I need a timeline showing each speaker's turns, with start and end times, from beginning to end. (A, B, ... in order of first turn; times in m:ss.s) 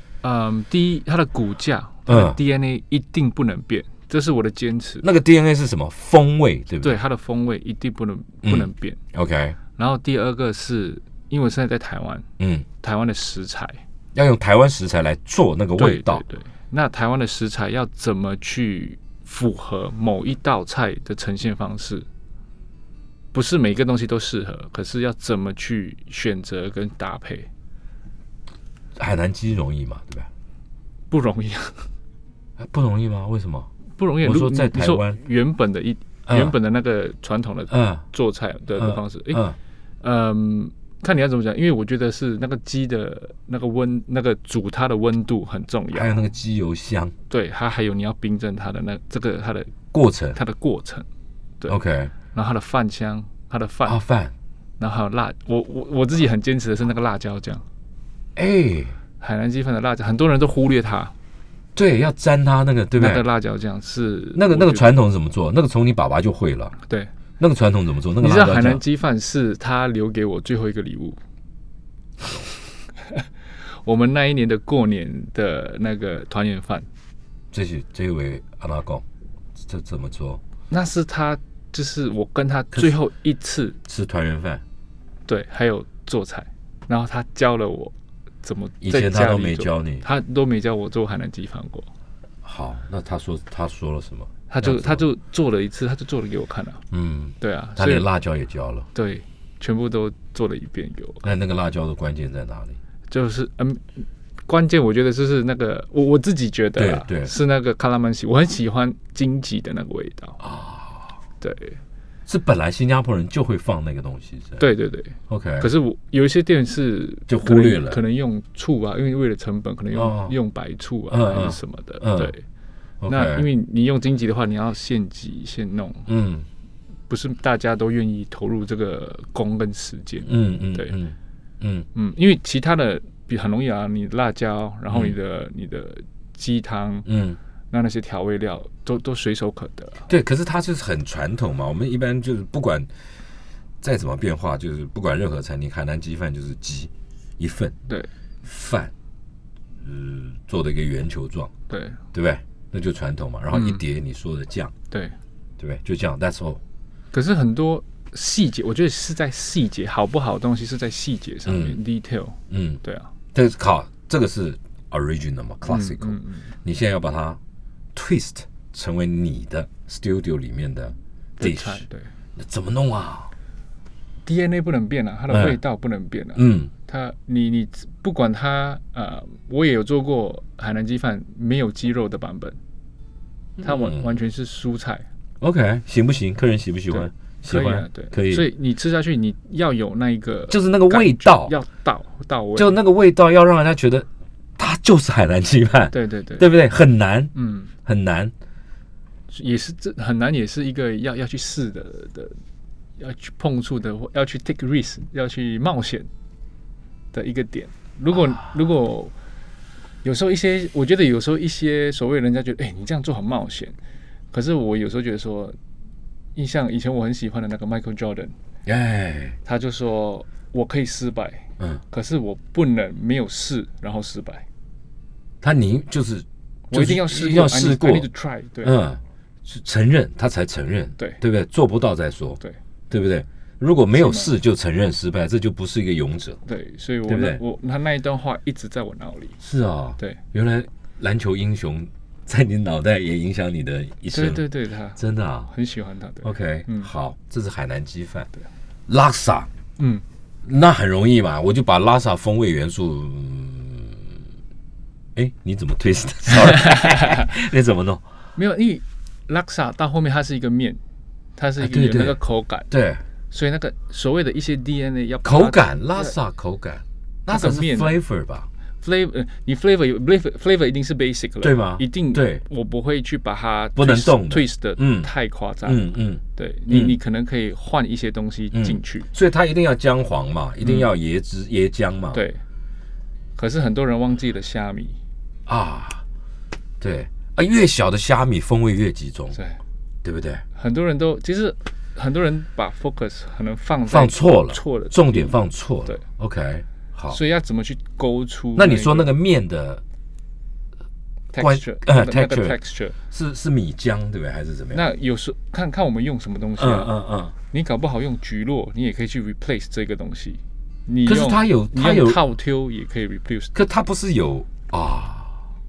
0:00.2-0:05.0 A
0:02.1-0:02.4 B
0:05.0-0:07.0 B
0:06.8-0:09.0 A
0:08.4-0:09.6 B
0:09.8-0:12.3 A
0:12.4-0:12.6 B
0:12.8-0:13.8 A
0:14.1-0:16.2 B
0:15.8-0:22.1 A
0:23.3-0:27.5 A
0:29.0-0:30.3 B
0:31.1-0:31.9 A
0:32.6-0:33.7 B
0:34.0-0:39.4 A
0:34.2-0:35.2 B
0:36.3-0:36.5 B
0:37.7-0:38.0 B
0:38.8-0:39.6 B
0:40.0-0:46.2 A
0:45.9-0:47.1 B
0:47.3-0:49.7 A
0:49.9-0:50.4 B
0:50.3-0:51.1 A
0:51.7-0:52.1 B
0:52.3-0:54.0 A
0:53.8-0:54.3 B
0:54.8-0:57.6 A
0:58.4-0:59.0 B
0:59.2-1:01.1 A
1:01.8-1:03.2 B
1:02.9-1:04.9 A
1:04.3-1:06.7 B
1:07.4-1:08.8 B
1:08.2-1:11.2 A
1:12.2-1:12.5 B
1:13.1-1:16.9 A
1:17.5-1:19.0 B
1:19.6-1:20.4 B
1:20.7-1:23.8 A
1:23.8-1:24.6 B
1:25.3-1:31.9 A
1:28.8-1:30.0 B
1:32.4-1:35.0 B
1:34.5-1:36.8 A
1:36.9-1:38.9 B
1:37.4-1:38.1 A
1:38.9-1:41.2 A
1:41.2-1:42.8 B
1:43.1-1:50.4 A
1:46.8-1:47.3 B
1:50.4-1:51.2 B
1:51.4-1:51.8 A
1:52.3-1:54.6 B
1:54.6-2:02.4 A
1:55.3-1:55.7 B
1:57.3-1:58.0 B
1:59.9-2:00.3 B
2:01.1-2:02.3 B
2:03.0-2:03.5 B
2:03.1-2:06.1 A
2:06.1-2:06.4 B
2:07.1-2:11.0 A
2:10.2-2:11.9 B
2:11.9-2:17.1 A
2:14.9-2:15.1 B
2:17.0-2:17.4 B
2:17.7-2:20.1 A
2:20.1-2:22.9 B
2:23.8-2:27.7 B
2:28.4-2:28.9 B
2:29.8-2:31.5 B
2:31.7-2:32.0 A
2:32.1-2:34.7 B
2:33.5-2:33.8 A
2:34.9-2:35.2 A
2:35.6-2:36.6 B
2:37.1-2:43.1 A
2:41.4-2:41.8 B
2:42.5-2:42.8 B
2:43.3-2:47.4 B
2:45.7-2:46.5 A
2:47.9-2:51.8 B
2:51.4-2:52.1 A
2:52.4-2:53.3 B
2:54.2-3:02.6 A
2:55.3-2:55.6 B
2:56.4-2:56.7 B
3:03.6-3:04.1 B
3:03.6-3:05.0 A
3:05.4-3:08.5 B
3:06.9-3:12.7 A
3:10.5-3:11.5 B
3:12.6-3:14.1 B
3:14.6-3:17.3 B
3:15.9-3:16.5 A
3:17.3-3:17.7 A
3:17.8-3:18.3 B
3:19.3-3:22.4 A
3:23.0-3:26.1 A
3:27.1-3:29.1 A
3:28.2-3:28.4 B
3:30.0-3:33.8 A
3:34.3-3:35.6 A
3:36.4-3:38.3 A
3:38.6-3:39.4 B
3:39.4-3:44.4 A
3:45.4-3:48.1 B
3:46.7-3:48.8 A
3:48.6-3:56.4 B
3:53.9-3:54.3 A
3:56.4-3:59.4 A
3:57.0-3:57.4 B
3:59.4-4:04.4 B
4:04.1-4:06.9 A
4:05.0-4:05.5 B
4:06.2-4:08.3 B
4:08.9-4:09.5 B
4:09.8-4:10.0 A
4:10.4-4:14.2 B
4:15.1-4:18.0 B
4:16.5-4:17.2 A
4:18.4-4:20.8 A
4:21.4-4:22.7 A
4:21.6-4:23.0 B
4:23.3-4:26.1 A
4:25.2-4:28.5 B
4:27.3-4:28.0 A
4:28.8-4:35.8 A
4:31.4-4:32.4 B
4:33.8-4:35.1 B
4:35.6-4:37.0 B
4:36.3-4:39.1 A
4:38.5-4:42.2 B
4:40.6-4:40.9 A
4:42.1-4:42.4 A
4:43.4-4:45.0 A
4:45.5-4:46.0 B
4:46.8-4:49.4 B
4:49.3-4:49.6 A
4:50.0-4:50.4 B
4:50.5-4:56.0 A
4:53.9-4:57.2 B
4:57.1-4:59.1 A
4:58.6-4:59.8 B
5:01.3-5:03.0 A
5:01.4-5:02.6 B
5:03.1-5:04.8 B
5:04.7-5:07.0 A
5:06.6-5:07.3 B
5:07.5-5:13.5 A
5:11.0-5:12.2 B
5:13.5-5:15.4 B